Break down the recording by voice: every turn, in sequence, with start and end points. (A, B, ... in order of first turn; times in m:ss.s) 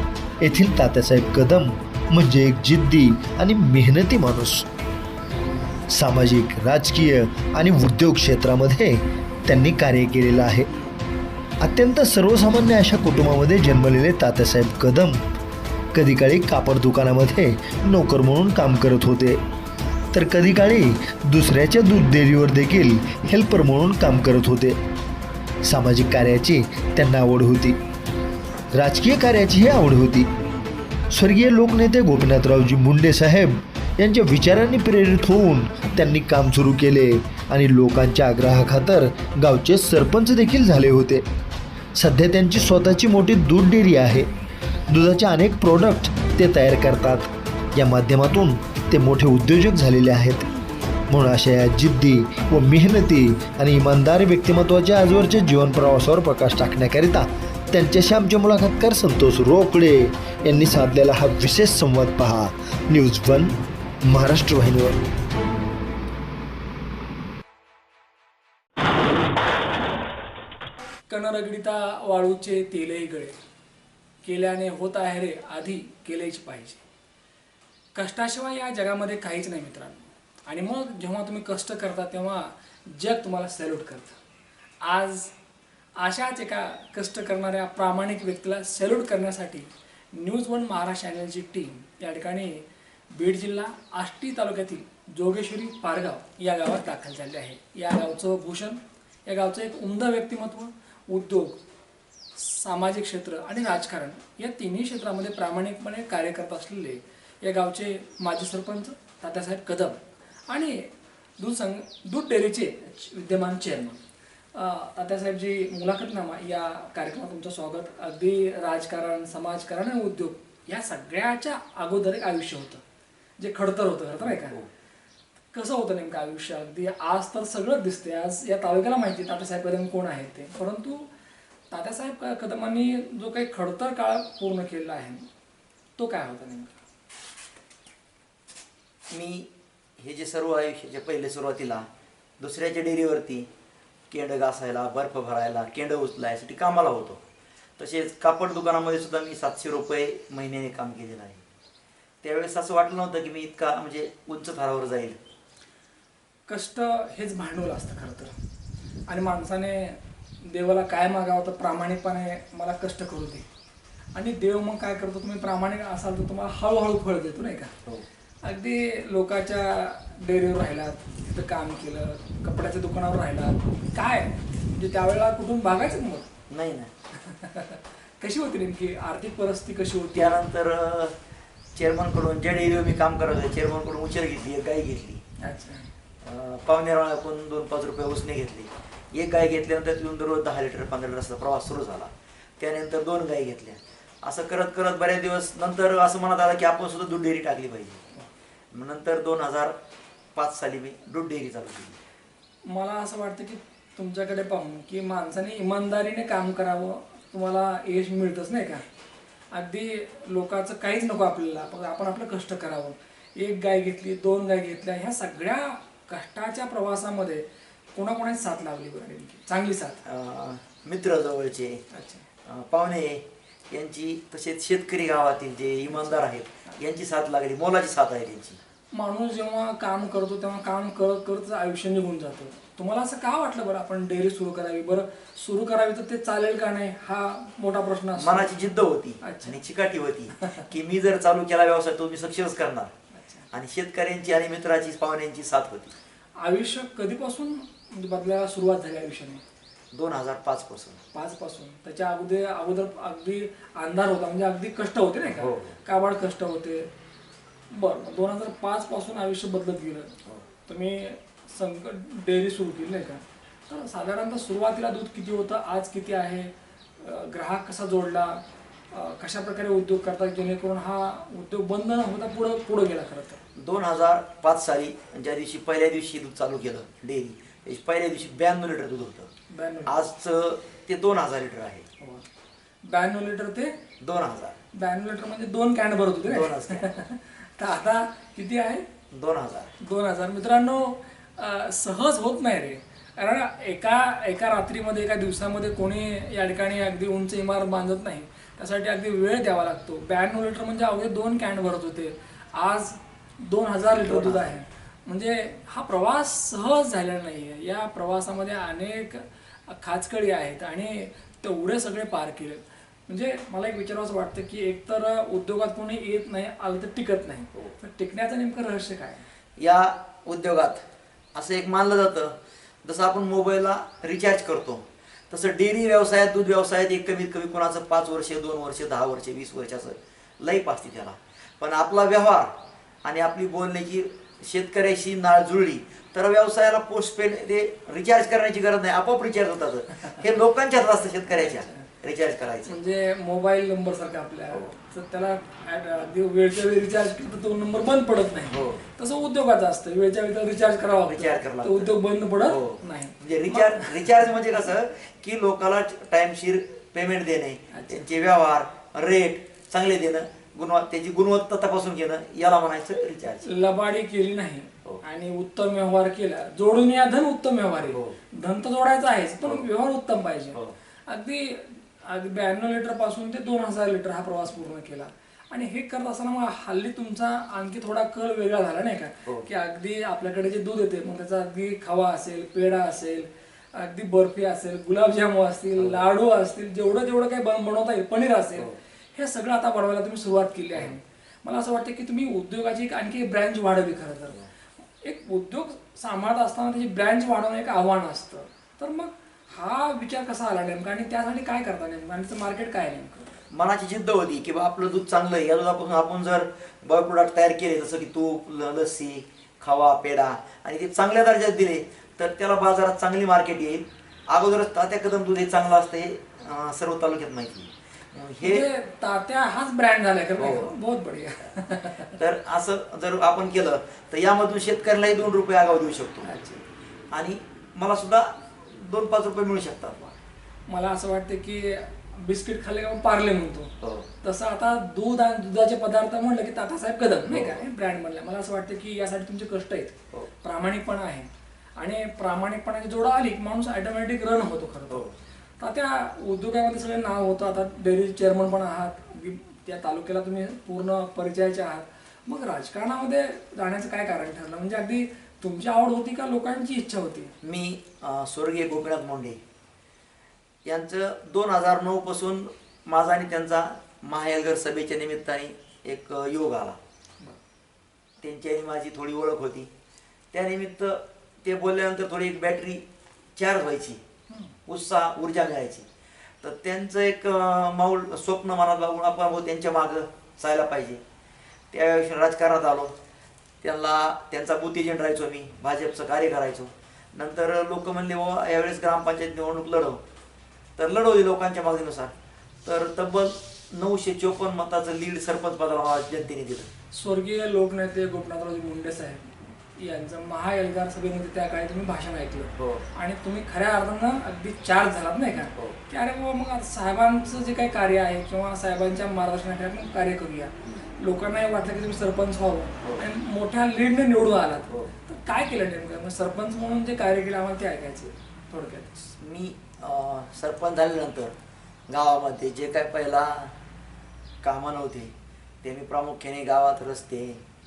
0:00.4-0:04.7 A
0:05.9-0:10.7 A
0:11.6-0:15.2 A
0:15.9-0:19.4 A
0:20.1-0:24.8 A
0:25.6-0:27.8 A
0:28.8-0:30.3 A
0:31.1-0:41.3 A
0:42.0-0:44.3 A
0:44.9-0:50.5 A
0:51.1-1:03.6 A
1:04.1-1:05.0 A
1:11.1-1:13.4 B
1:14.2-1:16.8 B
1:18.0-1:24.2 B
1:24.8-1:25.4 B
1:26.0-1:41.6 B
1:42.4-1:54.0 B
1:54.5-2:02.8 B
2:03.4-2:04.6 B
2:04.2-2:04.7 C
2:05.5-2:11.1 B
2:11.7-2:15.3 B
2:16.0-2:16.8 B
2:19.1-2:21.9 C
2:22.4-2:23.5 C
2:24.1-2:27.2 C
2:27.8-2:31.4 C
2:32.2-2:35.2 C
2:36.5-2:38.3 B
2:39.1-2:43.5 B
2:44.2-2:47.7 B
2:48.4-2:56.3 B
2:56.5-2:56.9 C
2:57.2-3:00.4 B
3:00.1-3:01.2 C
3:01.8-3:05.2 C
3:05.4-3:05.9 B
3:06.2-3:18.0 C
3:18.7-3:19.8 C
3:20.4-3:22.0 C
3:22.7-3:28.8 B
3:29.5-3:40.0 B
3:40.1-3:41.8 C
3:41.9-3:42.3 B
3:42.5-3:48.6 C
3:48.9-3:58.5 B
3:58.2-4:02.9 C
3:59.2-3:59.6 B
4:00.4-4:00.6 B
4:03.1-4:03.5 B
4:03.5-4:05.9 C
4:06.4-4:09.4 B
4:09.9-4:11.0 C
4:11.1-4:16.9 B
4:15.3-4:15.8 C
4:17.7-4:20.1 B
4:20.7-4:33.4 B
4:33.6-4:39.3 C
4:39.5-4:40.0 B
4:39.9-4:41.9 C
4:42.0-4:42.3 B
4:42.9-4:43.8 B
4:44.0-4:44.6 C
4:44.7-4:48.9 B
4:46.3-4:47.0 C
4:49.1-4:49.7 C
4:49.8-5:19.2 B
5:04.0-5:04.5 C
5:19.6-5:20.8 C
5:21.4-5:42.8 C
5:41.3-5:41.9 B
5:42.7-5:54.3 B
5:48.5-5:48.8 C
5:51.1-6:03.5 C
5:57.7-5:58.0 B
6:03.4-6:34.4 B
6:07.9-6:08.2 C
6:25.8-6:26.0 C
6:35.0-6:43.4 B
6:43.5-6:58.7 C
6:58.4-7:02.2 B
7:00.4-7:00.7 C
7:02.1-7:06.3 C
7:06.2-7:06.6 B
7:07.1-7:10.0 C
7:10.7-7:13.7 B
7:13.8-7:14.1 C
7:14.2-7:25.1 B
7:17.3-7:17.6 C
7:24.9-7:25.2 C
7:25.6-7:37.3 B
7:37.4-7:39.4 C
7:40.6-7:46.8 C
7:48.2-7:49.7 C
7:50.3-7:52.8 C
7:53.4-7:54.0 C
7:54.3-7:54.6 B
7:54.7-7:55.9 C
7:56.4-8:01.0 C
8:01.7-8:03.0 C
8:03.6-8:10.0 C
8:10.8-8:12.1 C
8:12.6-8:16.7 C
8:16.9-8:39.0 B
8:22.6-8:22.8 C
8:39.2-8:41.4 C
8:41.9-8:43.5 C
8:44.4-8:47.4 C